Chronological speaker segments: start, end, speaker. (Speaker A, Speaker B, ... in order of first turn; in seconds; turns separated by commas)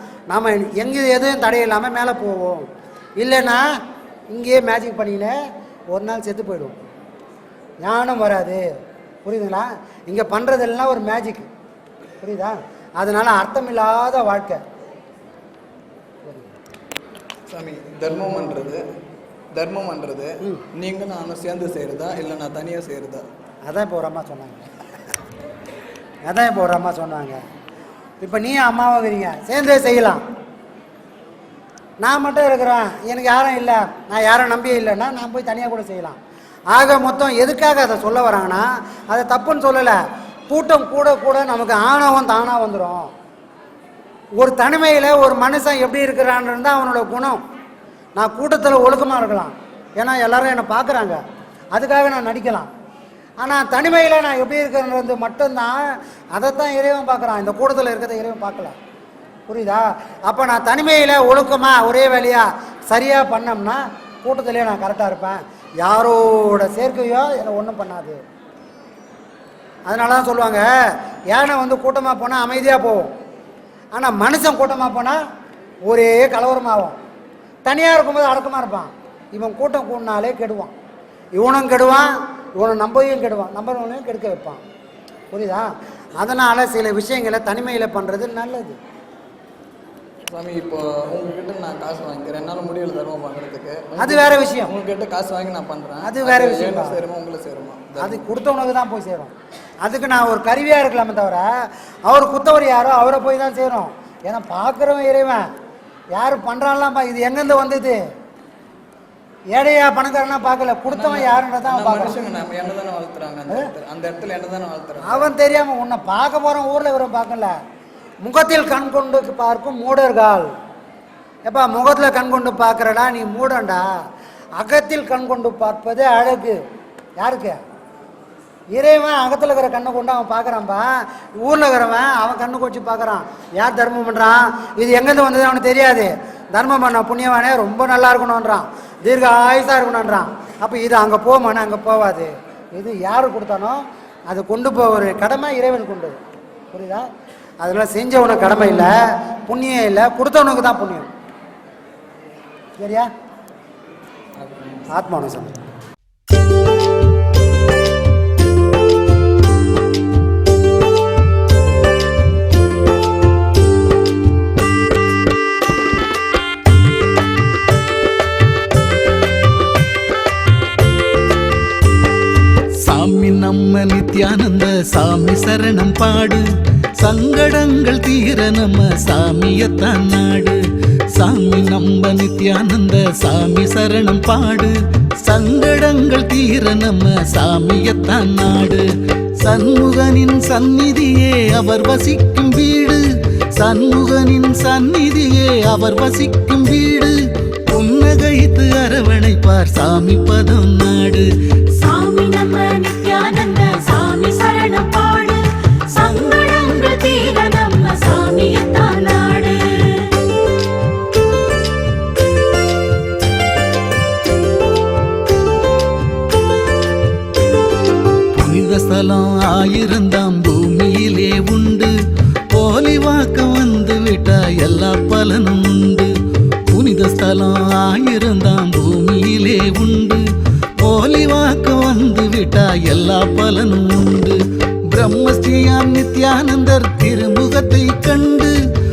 Speaker A: 0.3-2.7, Speaker A: 3.2-3.7, Speaker A: 4.3-5.4, Speaker A: 5.9-6.8, Speaker A: 7.8-8.7, Speaker A: 9.2-11.5, Speaker A: 12.2-14.6, Speaker B: 17.5-18.8, Speaker B: 19.5-23.3, Speaker A: 23.7-24.7, Speaker A: 26.3-27.4, Speaker A: 28.2-30.2, Speaker A: 32.0-36.2, Speaker A: 36.7-43.1, Speaker A: 44.4-47.4, Speaker A: 48.2-51.2, Speaker A: 51.7-52.7, Speaker A: 53.4-58.8, Speaker A: 59.5-68.2, Speaker A: 69.9-70.7, Speaker A: 71.3-73.1, Speaker A: 73.9-75.2, Speaker A: 75.9-77.0, Speaker A: 77.7-80.7, Speaker A: 81.4-84.6, Speaker A: 85.3-88.8, Speaker B: 90.3-98.2, Speaker A: 94.0-94.7, Speaker A: 96.0-97.0, Speaker A: 98.0-99.3, Speaker A: 99.8-101.5, Speaker A: 102.1-105.5, Speaker A: 106.1-108.0, Speaker A: 109.5-112.2, Speaker B: 110.9-115.3, Speaker A: 115.0-117.6, Speaker A: 118.2-120.5, Speaker A: 121.5-123.9, Speaker A: 124.6-126.6, Speaker A: 127.2-127.6, Speaker A: 128.7-146.2, Speaker A: 146.7-147.1, Speaker A: 147.6-151.1, Speaker A: 152.8-153.1, Speaker B: 154.4-154.9, Speaker A: 154.9-155.5, Speaker C: 172.8-176.4, Speaker C: 177.0-180.6, Speaker C: 181.2-188.9, Speaker C: 189.4-193.0, Speaker C: 193.6-197.2, Speaker C: 197.7-201.3, Speaker D: 201.8-210.1, Speaker C: 218.3-221.9, Speaker C: 222.5-226.1, Speaker C: 226.7-230.3, Speaker C: 230.8-234.4, Speaker C: 234.9-238.6